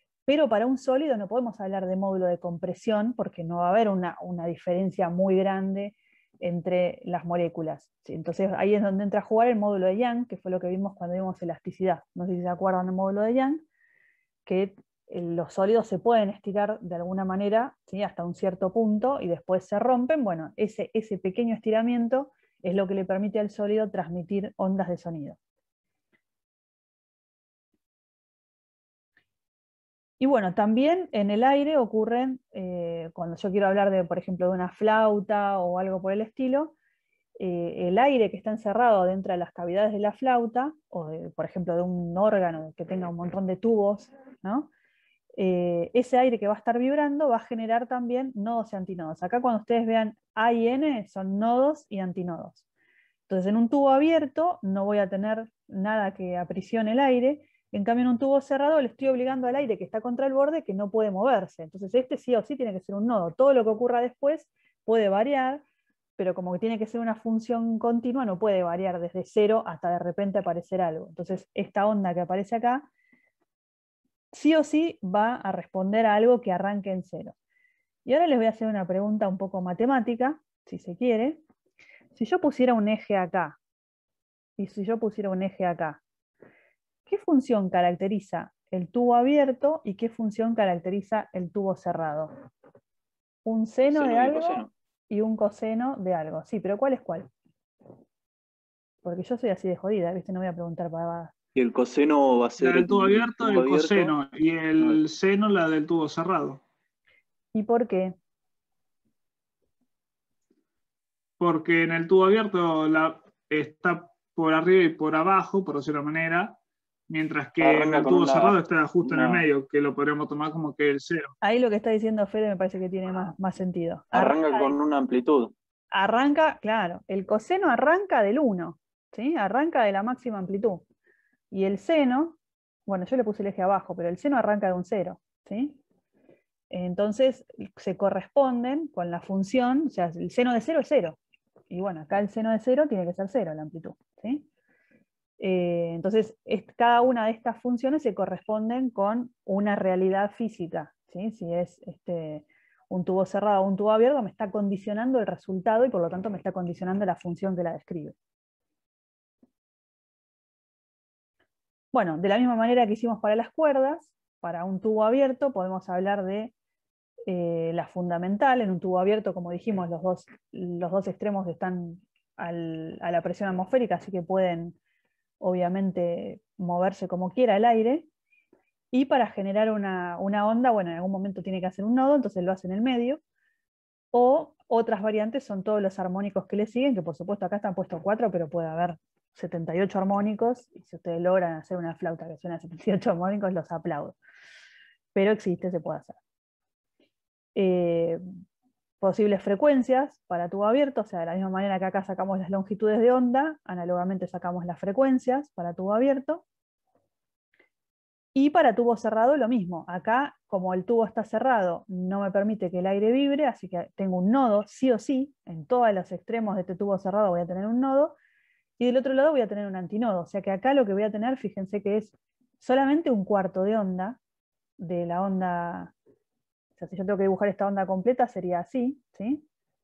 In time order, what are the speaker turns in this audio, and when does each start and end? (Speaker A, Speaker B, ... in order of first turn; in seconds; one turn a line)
Speaker A: 0.3-13.7
Speaker A: 14.4-25.4
Speaker A: 30.2-36.8
Speaker A: 37.4-44.7
Speaker A: 45.4-52.6
Speaker A: 53.3-65.6
Speaker A: 66.2-72.9
Speaker A: 74.3-77.3
Speaker A: 78.0-81.4
Speaker A: 82.2-83.6
Speaker A: 84.6-86.0
Speaker A: 87.1-92.3
Speaker A: 93.5-97.3
Speaker B: 93.9-94.7
Speaker A: 99.0-101.3
Speaker B: 101.5-104.2
Speaker C: 102.6-106.6
Speaker A: 107.5-108.2
Speaker C: 111.4-116.6
Speaker C: 117.1-121.3
Speaker B: 117.6-119.5
Speaker A: 121.4-124.8
Speaker B: 124.1-125.5
Speaker A: 125.9-130.8
Speaker A: 131.5-135.8
Speaker A: 136.7-141.2
Speaker A: 141.7-144.5
Speaker A: 145.4-158.2
Speaker A: 161.9-166.5
Speaker A: 167.3-174.8
Speaker A: 175.4-178.1
Speaker A: 178.9-183.2
Speaker A: 184.1-194.2
Speaker A: 195.2-196.2
Speaker A: 197.6-198.2
Speaker A: 199.0-206.4
Speaker A: 208.3-218.2
Speaker A: 218.8-224.2
Speaker A: 224.8-225.9
Speaker A: 226.8-229.4